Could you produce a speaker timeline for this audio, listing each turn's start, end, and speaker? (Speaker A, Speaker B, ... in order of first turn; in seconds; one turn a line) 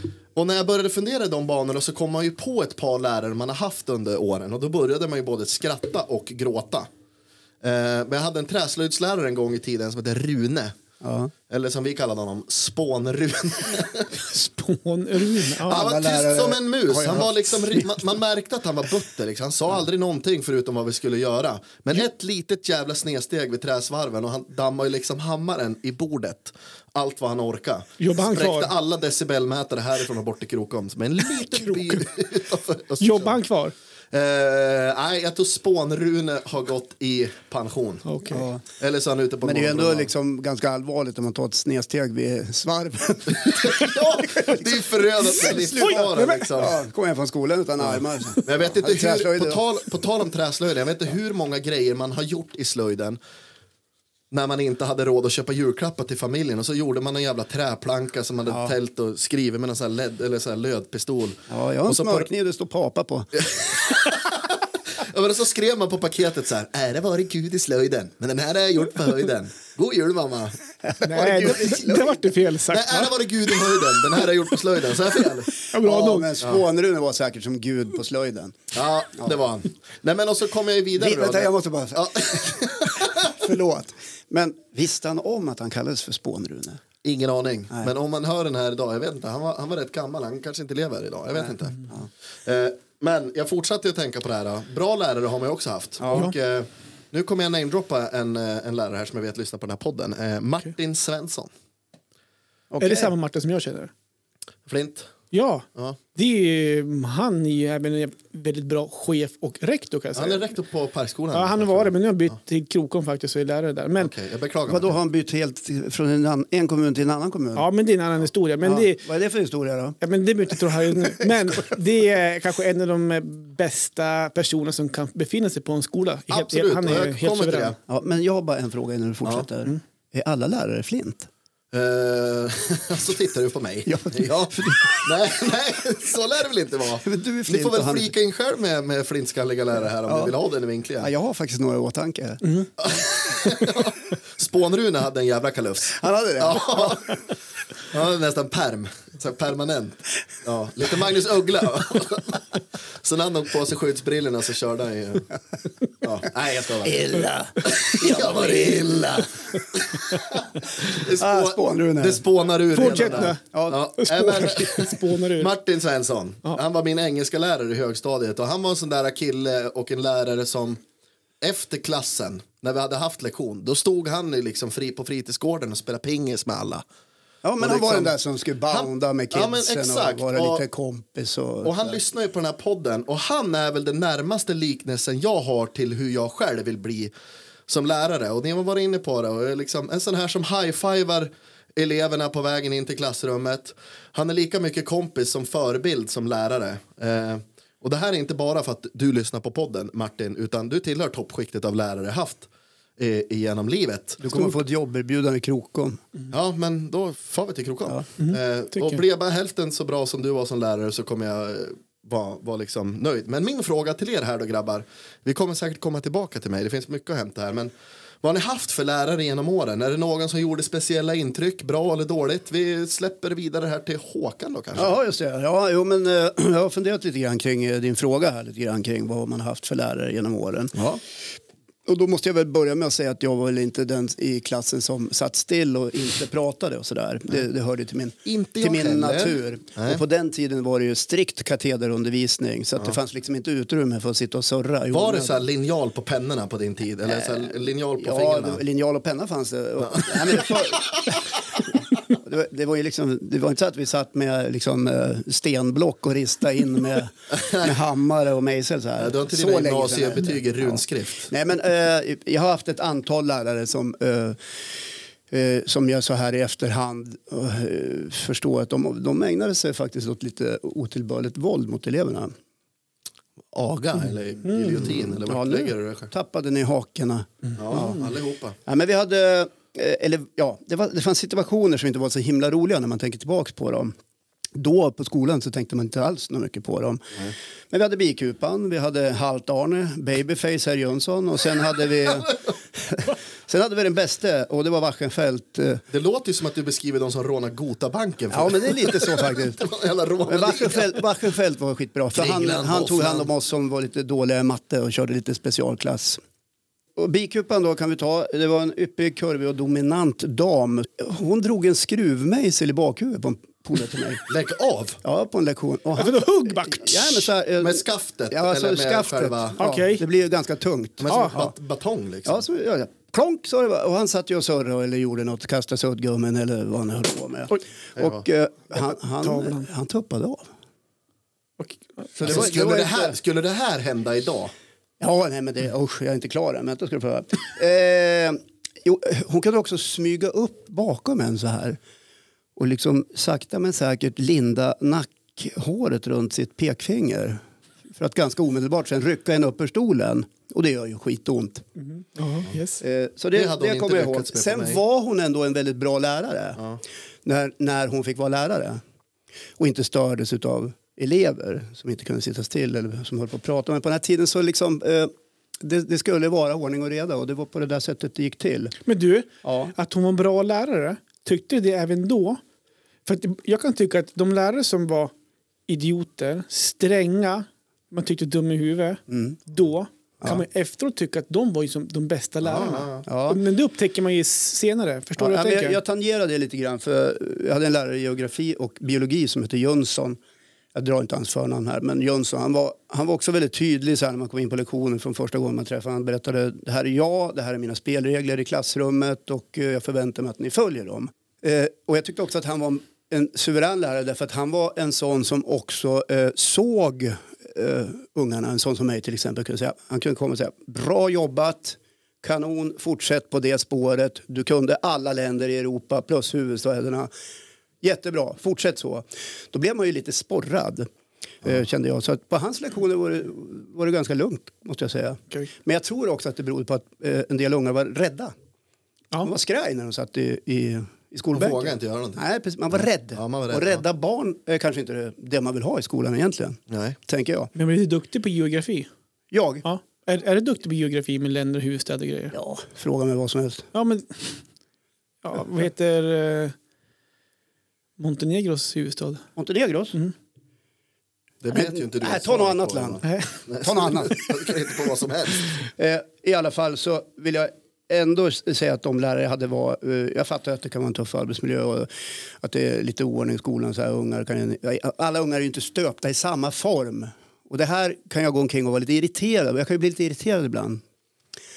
Speaker A: 0.3-6.9
Speaker A: 7.6-10.8
Speaker B: 11.0-11.3
Speaker A: 11.5-14.2
Speaker C: 14.2-15.9
Speaker A: 15.6-33.4
Speaker B: 15.7-18.0
Speaker C: 28.0-28.7
Speaker C: 31.5-32.0
Speaker C: 33.0-33.7
Speaker A: 34.1-38.1
Speaker C: 38.0-38.4
Speaker B: 38.3-38.6
Speaker A: 38.8-40.1
Speaker B: 39.4-49.6
Speaker A: 43.4-46.8
Speaker C: 45.4-46.5
Speaker A: 47.8-53.2
Speaker A: 54.3-62.3
Speaker B: 61.5-63.5
Speaker A: 63.4-70.6
Speaker B: 70.8-72.3
Speaker C: 71.0-73.2
Speaker A: 71.2-71.6
Speaker A: 72.7-75.5
Speaker C: 75.6-76.3
Speaker B: 75.8-78.6
Speaker A: 78.7-83.3
Speaker B: 81.0-86.8
Speaker A: 87.0-91.9
Speaker A: 92.4-101.5
Speaker B: 96.0-96.3
Speaker B: 102.7-103.1
Speaker C: 102.8-103.9
Speaker A: 104.7-105.1
Speaker C: 105.3-110.5
Speaker A: 110.1-112.3
Speaker C: 111.3-114.1
Speaker A: 114.0-114.9
Speaker B: 114.7-117.7
Speaker C: 117.5-119.0
Speaker B: 118.6-120.0
Speaker C: 120.0-127.8
Speaker A: 126.3-127.8
Speaker B: 127.9-131.3
Speaker A: 131.7-141.1
Speaker B: 133.9-135.1
Speaker B: 137.0-138.1
Speaker B: 140.1-140.3
Speaker B: 141.0-142.6
Speaker A: 142.8-147.2
Speaker B: 145.9-147.2
Speaker A: 147.9-155.3
Speaker A: 156.0-170.8
Speaker B: 156.8-159.5
Speaker B: 160.9-162.2
Speaker C: 162.7-163.4
Speaker B: 162.9-163.8
Speaker C: 164.0-165.5
Speaker A: 171.4-176.8
Speaker B: 177.4-182.0
Speaker A: 177.6-178.1
Speaker A: 178.7-180.6
Speaker A: 181.6-187.1
Speaker A: 187.7-204.2
Speaker B: 204.2-206.0
Speaker A: 206.3-224.9
Speaker C: 208.2-209.0
Speaker B: 224.8-230.8
Speaker A: 230.7-231.0
Speaker B: 231.8-245.4
Speaker A: 238.2-240.0
Speaker A: 244.9-248.6
Speaker B: 247.1-251.2
Speaker A: 249.8-250.8
Speaker B: 252.0-264.4
Speaker A: 257.3-257.8
Speaker A: 259.0-261.3
Speaker B: 265.3-272.3
Speaker A: 273.5-276.1
Speaker C: 274.5-274.8
Speaker B: 275.2-278.1
Speaker A: 277.6-278.6
Speaker B: 278.6-283.9
Speaker B: 284.5-287.1
Speaker B: 287.7-295.8
Speaker A: 295.9-301.0
Speaker B: 298.3-299.6
Speaker B: 300.2-306.2
Speaker A: 302.1-303.3
Speaker B: 307.0-314.2
Speaker A: 314.3-315.0
Speaker B: 315.0-321.5
Speaker C: 316.0-317.2
Speaker A: 317.6-319.6
Speaker C: 319.6-320.0
Speaker A: 321.0-322.4
Speaker C: 321.1-321.4
Speaker B: 322.2-330.5
Speaker A: 328.0-328.2
Speaker C: 329.2-329.7
Speaker C: 331.6-332.0
Speaker A: 332.1-334.5
Speaker B: 332.2-333.1
Speaker B: 335.0-341.8
Speaker B: 342.6-351.6
Speaker C: 351.8-352.8
Speaker B: 352.8-356.6
Speaker A: 353.3-354.8
Speaker B: 357.2-358.8
Speaker B: 359.6-368.7
Speaker C: 368.9-372.4
Speaker B: 369.4-369.7
Speaker C: 373.1-375.1
Speaker C: 375.7-385.8
Speaker B: 379.1-379.4
Speaker A: 382.4-383.0
Speaker B: 383.1-383.4
Speaker B: 385.2-390.2
Speaker B: 390.7-417.1
Speaker B: 417.8-420.9
Speaker B: 421.4-428.3
Speaker B: 429.2-437.5
Speaker A: 431.3-432.2
Speaker A: 432.7-433.8
Speaker A: 436.7-437.0
Speaker C: 437.5-438.9
Speaker B: 439.3-439.6
Speaker C: 439.6-442.3
Speaker B: 442.3-443.7
Speaker C: 443.7-444.4
Speaker C: 445.2-446.5
Speaker C: 448.0-449.2
Speaker B: 449.4-450.0
Speaker A: 451.4-455.4
Speaker B: 451.5-453.0
Speaker C: 453.0-453.3
Speaker B: 453.6-454.3
Speaker B: 455.8-470.8